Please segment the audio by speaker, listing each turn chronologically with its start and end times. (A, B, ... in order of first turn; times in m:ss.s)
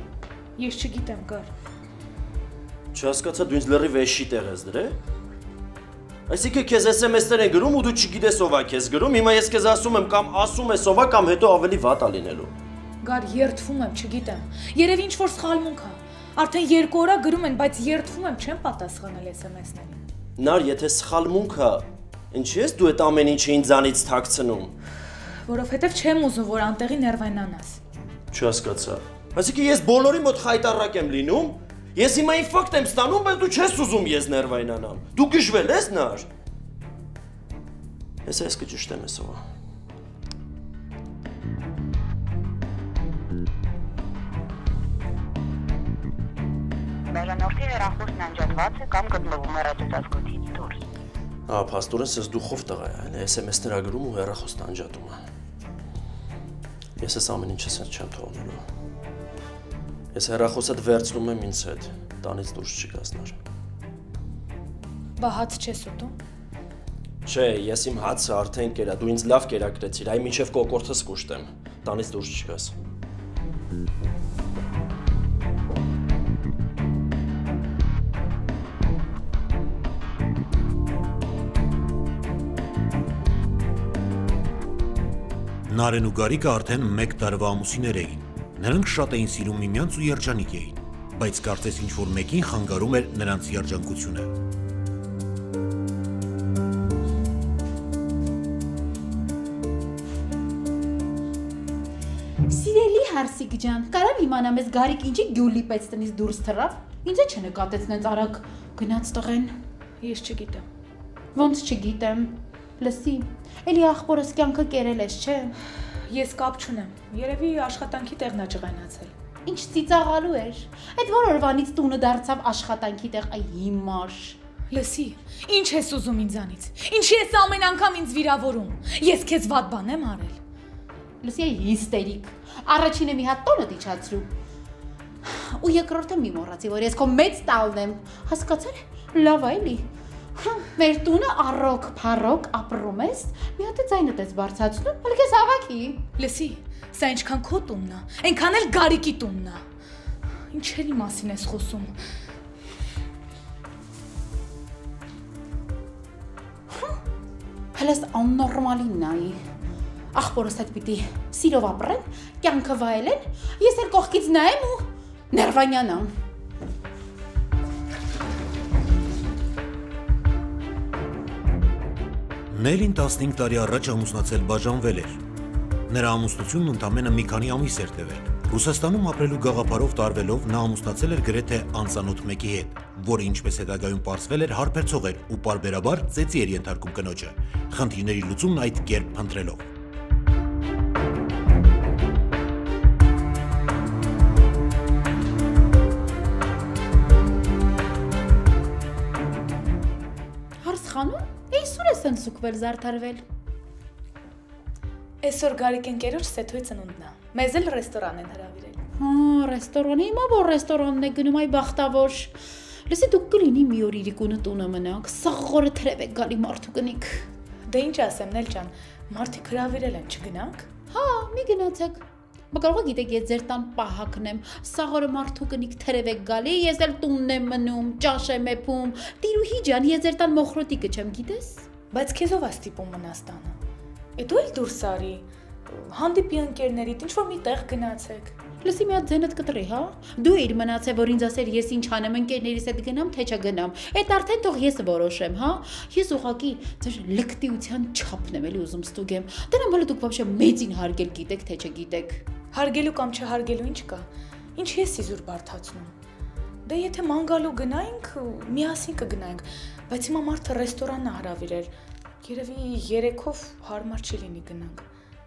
0:00.6-0:01.5 A
0:02.9-0:05.0 B
0:06.3-0:12.5 B
0:13.0-0:20.0 A
0:20.4-0:24.7 B
0:25.5-0:27.8 A
0:28.3-0:36.3 B
0:38.2-0:39.4 B
0:47.1-0:50.8 C
0:51.5-0:55.2 B
0:57.0-0:58.6 B
1:00.1-1:03.4 B
1:05.2-1:06.2 A
1:07.2-1:12.7 B
1:25.6-1:34.3 D
1:42.5-1:49.6 E
1:50.0-1:50.6 A
1:51.3-1:55.5 E
1:56.1-1:59.1 A
1:59.4-2:04.4 E
2:04.7-2:10.4 A
2:11.2-2:14.3 E
2:15.2-2:26.0 E
2:26.2-2:29.6 A
2:30.5-2:31.9 A
2:37.7-2:39.4 E
2:40.1-2:46.1 E
2:52.5-2:55.2 D
2:55.9-3:09.6 D
3:20.6-3:23.2 E
3:25.2-3:28.8 A
3:29.0-3:32.3 E
3:32.9-3:37.3 E
3:37.7-3:40.7 A
3:40.9-3:51.6 E
3:51.9-3:53.6 A
3:54.2-3:58.4 A
3:58.6-4:12.2 E
4:12.5-4:15.9 A
4:16.6-4:24.8 A